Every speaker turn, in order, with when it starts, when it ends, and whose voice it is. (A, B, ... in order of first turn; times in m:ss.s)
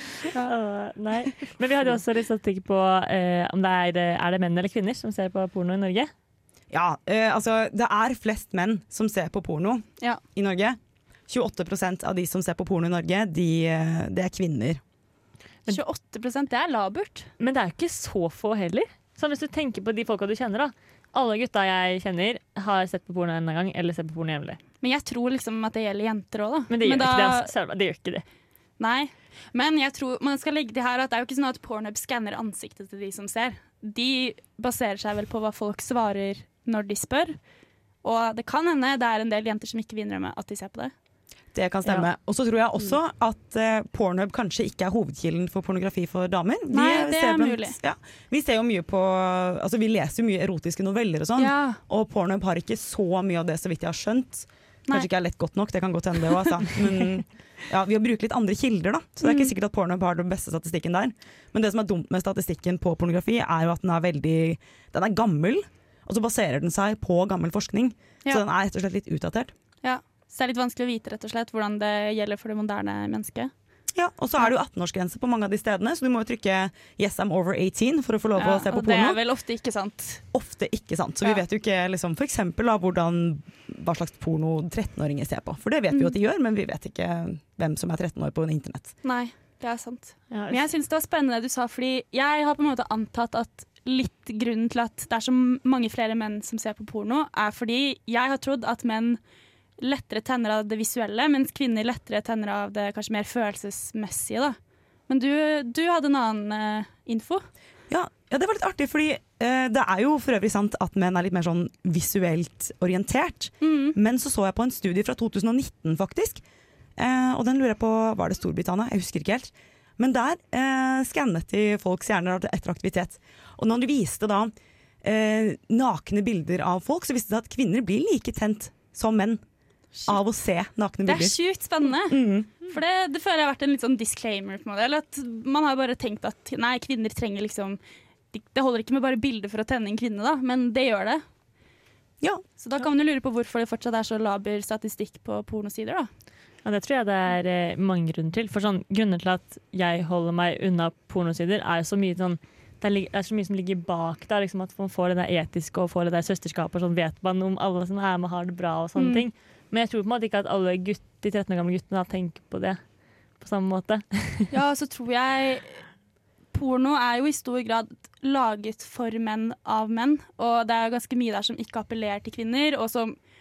0:00.5-0:06.1 A
0:06.7-0:14.8 B
0:15.6-0:17.3 C
0:17.4-0:24.6 A
0:24.8-0:27.5 C
0:26.7-0:28.2 A
0:28.8-0:37.4 C
0:38.0-0:40.9 C
0:41.5-1:09.5 B
0:46.7-0:47.8 C
0:51.4-0:51.8 C
0:59.2-0:59.5 C
1:09.8-1:13.5 C
1:13.9-1:19.2 B
1:18.4-1:20.3 C
1:20.3-1:29.0 B
1:25.9-1:26.1 C
1:29.0-1:39.2 C
1:30.3-1:30.7 A
1:39.8-1:44.6 C
1:45.1-1:47.4 C
1:47.9-1:56.4 B
1:53.6-1:54.0 C
1:57.0-2:04.5 B
2:05.0-2:09.4 B
2:10.0-2:11.4 B
2:11.0-2:17.8 C
2:12.1-2:12.5 B
2:18.3-2:21.2 C
2:22.6-2:26.1 C
2:26.6-2:44.5 A
2:39.0-2:39.2 C
2:44.5-2:45.9 C
2:46.5-2:53.2 C